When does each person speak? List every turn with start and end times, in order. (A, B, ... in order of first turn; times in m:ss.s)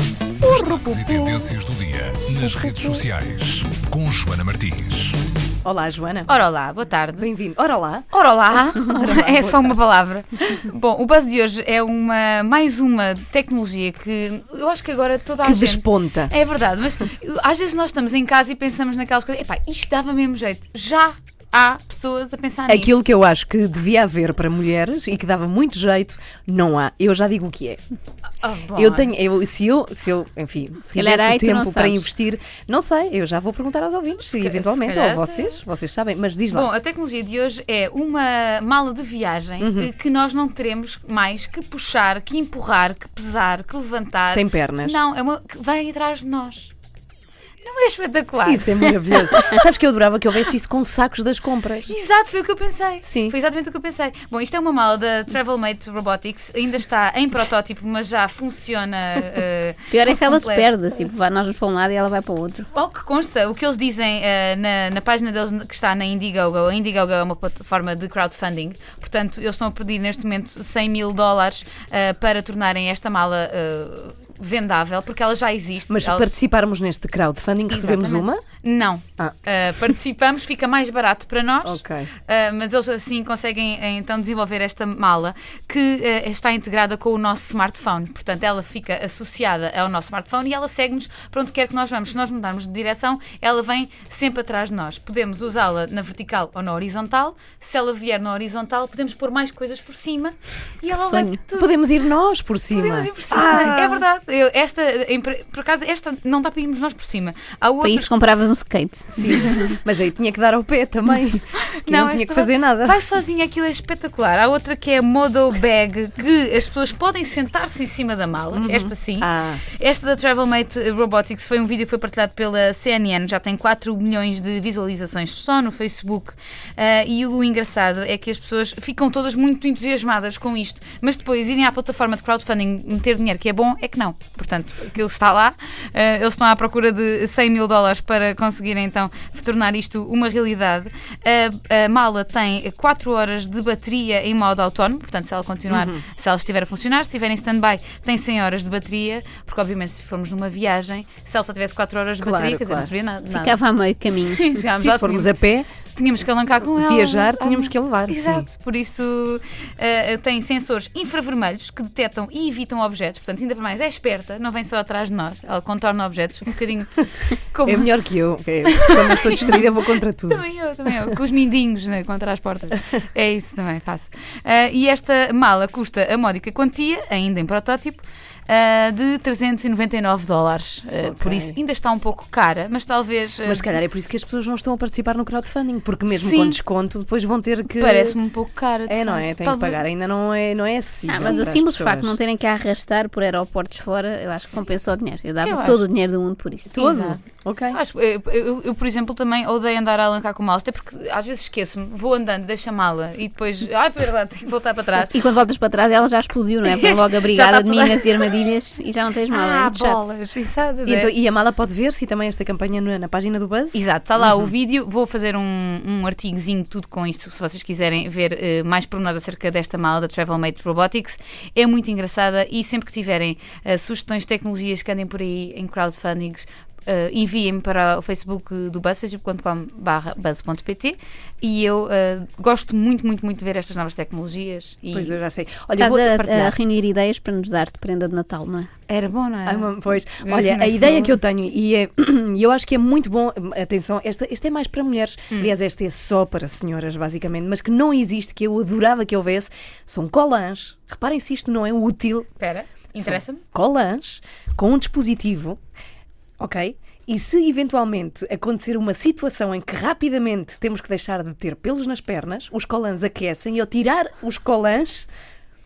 0:00.4-0:05.2 A
0:05.6-0:06.3 B
0:06.3-0:07.3 C
0:07.2-0:08.1 B
0:08.1-0:23.1 C
0:09.0-0:09.8 B
0:15.4-0:16.3 B
0:22.7-0:27.8 B
0:28.4-0:29.1 C
0:28.7-0:36.7 B
0:30.9-0:32.1 D
0:34.3-0:35.6 C
0:36.5-0:46.7 C
0:39.6-0:39.9 B
0:44.3-0:45.0 B
0:47.6-0:49.6 C
0:48.4-0:51.9 B
0:51.9-1:00.7 C
0:53.0-0:53.4 B
0:59.9-1:02.7 D
1:02.7-1:16.3 C
1:15.9-1:18.4 B
1:17.7-1:41.8 C
1:21.6-1:22.1 B
1:40.9-1:41.4 D
1:41.6-1:44.0 B
1:42.7-1:48.2 C
1:47.8-1:49.8 D
1:49.1-1:53.0 B
1:49.2-1:49.8 C
1:51.8-2:33.6 C
1:58.5-1:59.6 B
2:25.7-2:26.0 B
2:32.2-2:32.9 B
2:33.3-2:34.6 D
2:34.1-2:35.3 C
2:34.8-2:35.7 B
2:35.9-2:47.9 C
2:36.8-2:38.5 B
2:47.7-2:50.4 B
2:48.7-2:49.7 C
2:50.3-3:03.7 C
3:01.0-3:01.6 B
3:03.5-3:08.2 B
3:06.1-3:06.6 C
3:07.7-3:09.8 C
3:08.9-3:12.2 B
3:11.1-3:16.8 D
3:11.1-3:11.4 C
3:15.4-3:15.9 C
3:16.7-3:17.8 B
3:16.7-3:25.1 C
3:25.1-3:30.1 D
3:26.6-3:28.4 C
3:29.3-3:31.1 C
3:30.9-3:33.8 B
3:33.7-3:55.2 C
3:54.9-3:56.6 B
3:55.8-3:58.7 D
3:58.9-4:01.2 C
3:59.4-4:12.3 B
4:12.4-4:13.4 C
4:13.0-4:15.6 B
4:16.4-4:25.1 B